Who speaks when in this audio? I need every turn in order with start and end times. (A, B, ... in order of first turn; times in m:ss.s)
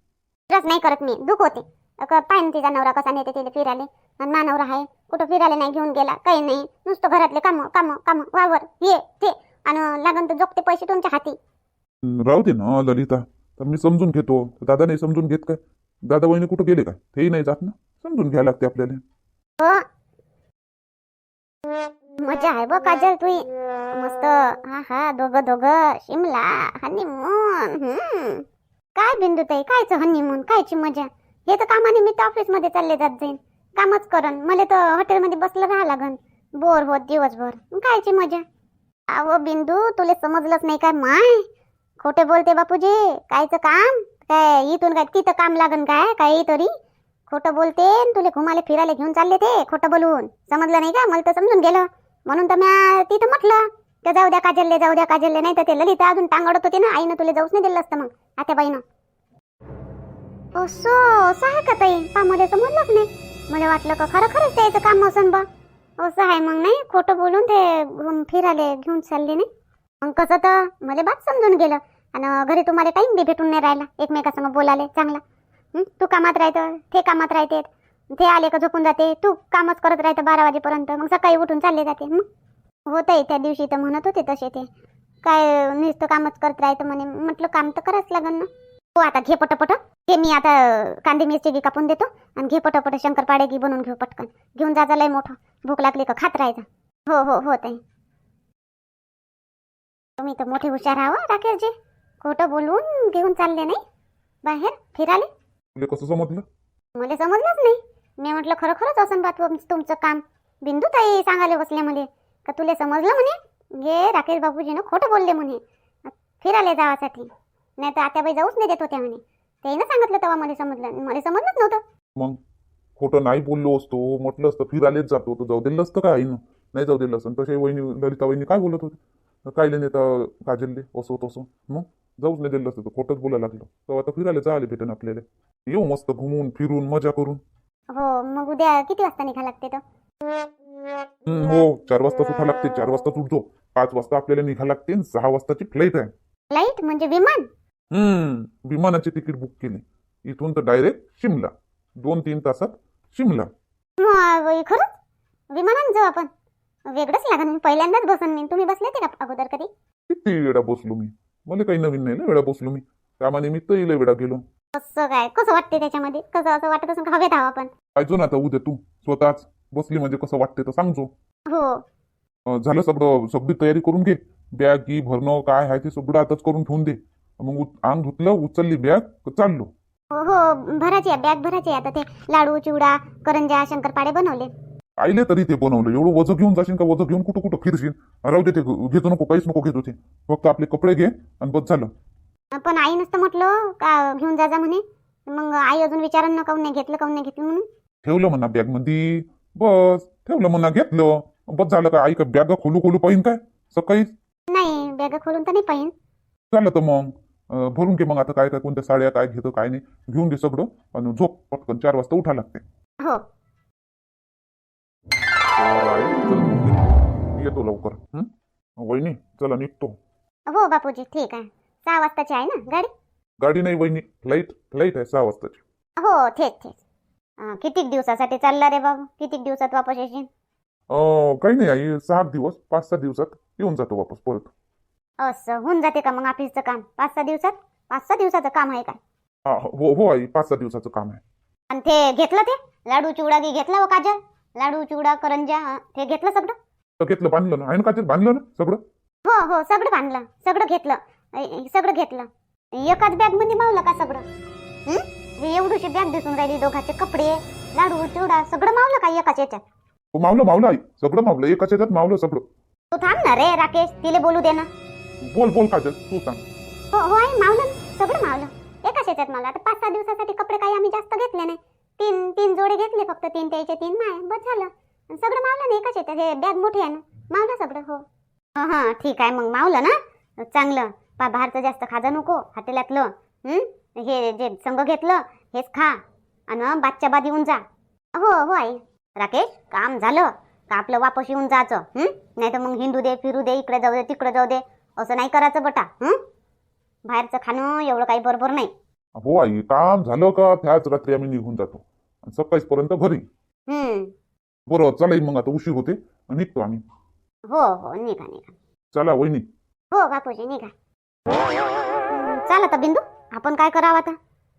0:00.5-0:11.4 A
0:12.0-0:19.0 B
0:19.6-0:19.8 A
0:22.2-0:28.4 A
0:29.0-0:38.4 A
0:39.1-0:41.5 A
0:42.0-0:46.7 A
0:47.3-0:58.8 A
1:00.6-1:05.4 A
1:06.0-1:09.5 A
1:10.0-1:15.2 A
1:15.7-1:22.2 A
1:22.9-1:24.7 A
1:25.2-1:37.8 A
1:40.2-1:43.8 A
1:44.4-1:45.3 A
1:45.7-1:46.4 B
1:47.0-1:55.6 A
1:56.4-2:01.8 A
2:03.0-2:17.4 B
2:17.9-2:19.8 A
2:21.2-2:26.1 B
2:26.5-2:27.5 A
2:27.9-2:33.5 B
2:34.0-2:34.9 A
2:35.5-2:36.3 A
2:36.9-2:39.7 A
2:40.1-2:44.4 B
2:44.7-2:47.7 A
2:47.9-2:51.1 B
2:51.5-2:51.8 A
2:52.5-2:59.7 B
3:00.1-3:04.5 A
3:05.0-3:11.9 B
3:12.5-3:17.6 A
3:18.0-3:24.1 B
3:24.5-3:25.9 A
3:26.5-3:32.6 B
3:35.5-3:40.0 B
3:40.5-3:42.9 A
3:43.4-3:45.6 B
3:46.0-3:46.8 A
3:47.4-3:50.3 A
3:50.9-3:54.5 B
3:55.2-3:59.0 A
3:59.4-4:01.2 B
4:01.7-4:06.6 A
4:07.0-4:08.8 B
4:09.2-4:14.2 A
4:14.8-4:19.6 A
4:20.1-4:22.4 B
4:22.9-4:24.7 A
4:25.2-4:26.4 B
4:26.9-4:38.0 A
4:38.6-4:47.6 A
4:48.1-4:56.2 A
4:57.0-4:58.7 A
4:59.1-5:03.2 B
5:03.7-5:04.1 A
5:04.7-5:06.8 B
5:07.5-5:08.5 A
5:08.9-5:09.5 B
5:09.9-5:10.7 A
5:12.1-5:14.2 A